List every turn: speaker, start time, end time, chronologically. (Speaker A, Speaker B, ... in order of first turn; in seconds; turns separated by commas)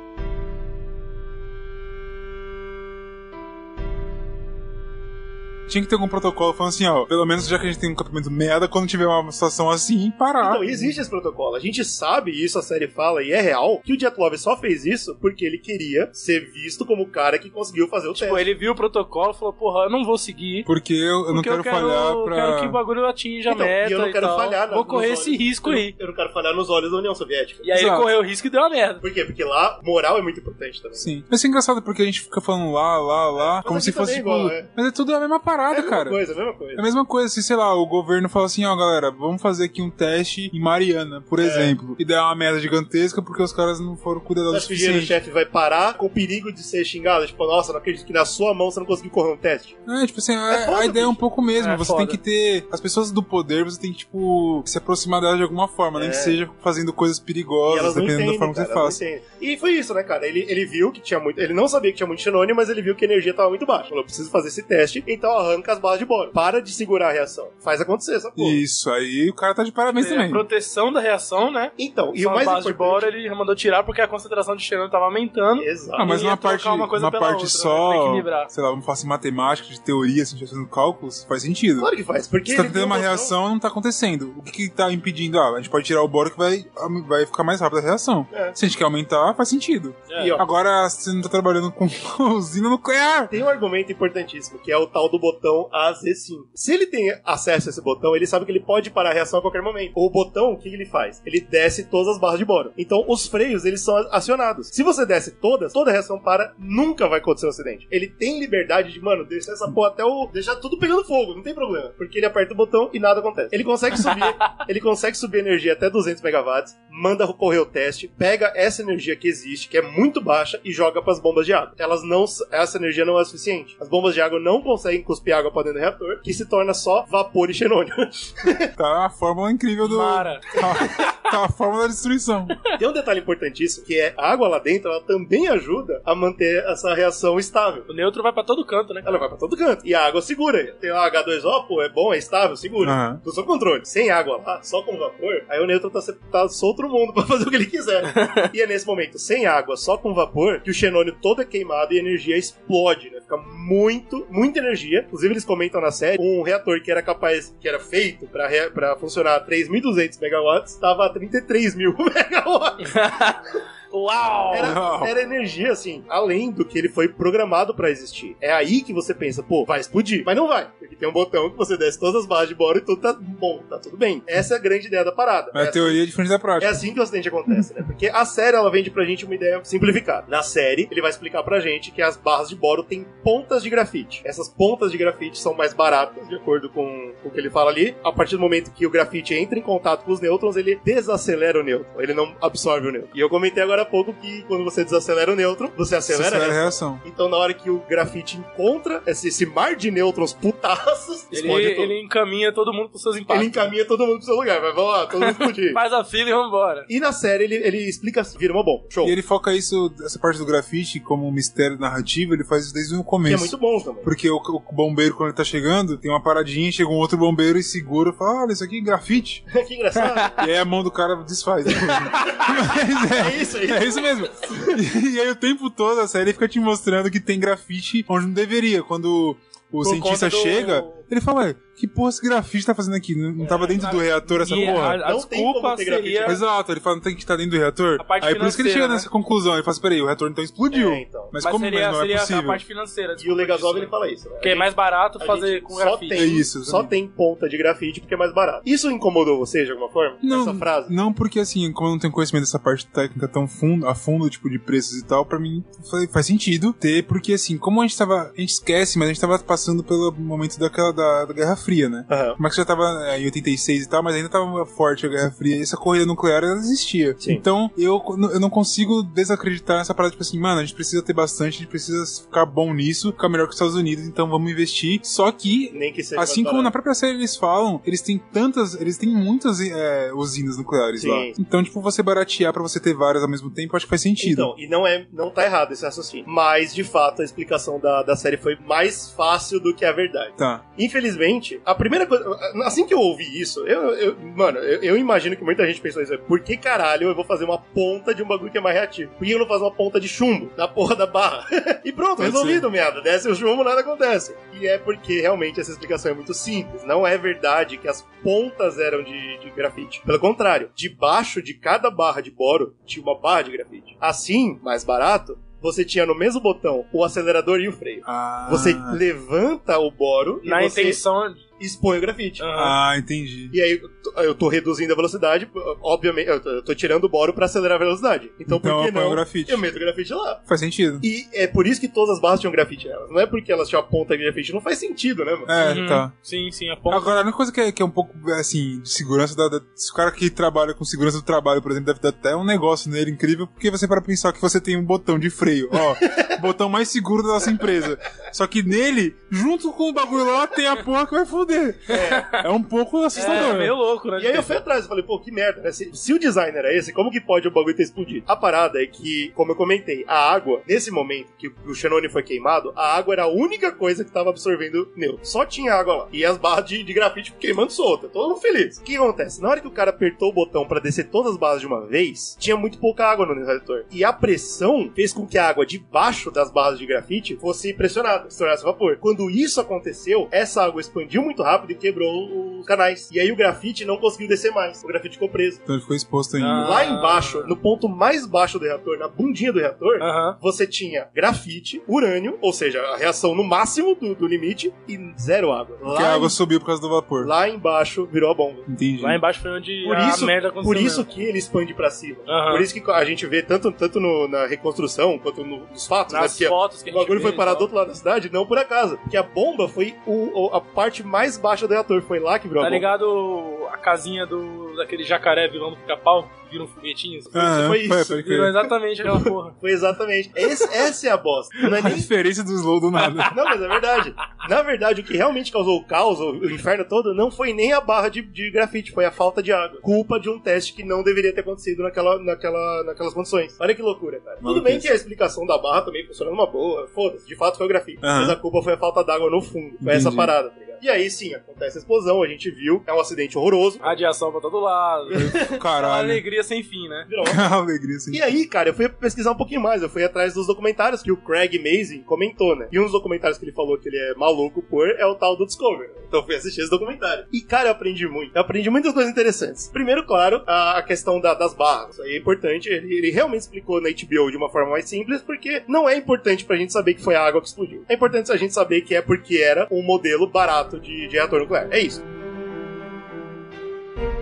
Speaker A: 5.7-10.8, Speaker B: 10.4-18.4, Speaker C: 18.1-20.7, Speaker A: 20.6-22.8, Speaker C: 21.3-25.9, Speaker B: 23.5-27.7, Speaker C: 27.6-29.0, Speaker A: 27.7-28.1, Speaker B: 29.0-31.1, Speaker A: 31.0-36.2, Speaker B: 33.4-34.7, Speaker B: 35.7-36.8, Speaker A: 36.8-45.1, Speaker B: 41.4-41.8, Speaker B: 44.5-49.8, Speaker A: 49.9-59.0, Speaker B: 50.5-51.2, Speaker C: 51.6-52.2, Speaker B: 55.9-56.4, Speaker B: 57.7-68.6, Speaker A: 68.4-70.4, Speaker C: 69.9-78.5, Speaker B: 71.8-73.1, Speaker B: 75.6-76.1, Speaker A: 76.0-81.9, Speaker B: 81.8-83.3, Speaker A: 82.5-93.3, Speaker B: 88.3-88.5, Speaker C: 90.1-90.4, Speaker B: 90.2-90.4, Speaker B: 93.3-128.7, Speaker A: 128.8-132.6, Speaker C: 129.8-131.1, Speaker B: 132.8-137.9, Speaker C: 137.9-139.1, Speaker B: 139.0-162.9, Speaker A: 142.8-143.2, Speaker C: 148.1-148.5, Speaker C: 162.8-164.8, Speaker B: 164.5-176.0, Speaker A: 164.6-165.1, Speaker A: 175.5-176.8, Speaker B: 176.6-201.9, Speaker A: 196.1-197.0, Speaker C: 201.3-203.7, Speaker B: 203.3-205.8, Speaker C: 205.2-206.9, Speaker B: 206.9-209.2, Speaker A: 209.0-219.4, Speaker B: 213.2-214.1, Speaker B: 219.5-220.4, Speaker A: 220.4-235.0, Speaker B: 221.8-222.5, Speaker C: 222.2-222.5, Speaker B: 223.1-224.8, Speaker C: 229.8-231.0, Speaker B: 233.4-234.0, Speaker C: 233.8-236.4, Speaker B: 234.5-236.4, Speaker A: 236.2-242.6, Speaker C: 238.0-239.1, Speaker B: 240.7-241.3, Speaker C: 241.4-246.2, Speaker B: 243.2-244.7, Speaker B: 245.2-250.9, Speaker A: 246.1-246.9, Speaker A: 250.2-284.5, Speaker B: 262.1-262.4, Speaker B: 275.7-276.7, Speaker B: 281.0-281.3, Speaker B: 284.2-321.0, Speaker A: 290.4-290.6, Speaker A: 302.2-302.7, Speaker A: 318.0-319.0, Speaker C: 320.4-321.4, Speaker B: 321.6-322.5, Speaker C: 322.4-322.8, Speaker A: 322.5-323.5, Speaker B: 323.5-330.4, Speaker A: 328.5-329.6, Speaker A: 330.5-331.0, Speaker B: 331.0-335.5, Speaker A: 335.5-336.1, Speaker C: 335.6-337.2, Speaker A: 336.9-353.7, Speaker B: 346.0-346.4, Speaker B: 351.9-352.3, Speaker C: 351.9-352.4, Speaker C: 353.1-354.5, Speaker B: 353.2-353.6, Speaker B: 354.2-385.6, Speaker A: 385.7-386.7, Speaker C: 386.4-387.5, Speaker B: 386.6-396.4, Speaker C: 390.0-390.4, Speaker A: 395.9-397.3, Speaker B: 397.2-398.7, Speaker A: 398.7-399.2, Speaker C: 399.0-401.1, Speaker B: 399.8-412.9, Speaker C: 402.3-402.7, Speaker C: 406.1-407.7, Speaker C: 412.6-417.4, Speaker B: 417.3-418.2, Speaker A: 417.3-418.6, Speaker C: 418.1-419.5, Speaker B: 419.1-422.1, Speaker A: 421.6-423.3, Speaker C: 423.0-423.3, Speaker B: 423.3-444.0, Speaker A: 434.4-434.9, Speaker A: 438.0-438.4, Speaker A: 439.8-440.3, Speaker C: 443.8-447.1, Speaker B: 445.1-445.6, Speaker A: 445.1-446.2, Speaker B: 447.1-447.5, Speaker A: 447.2-448.2, Speaker B: 448.1-472.0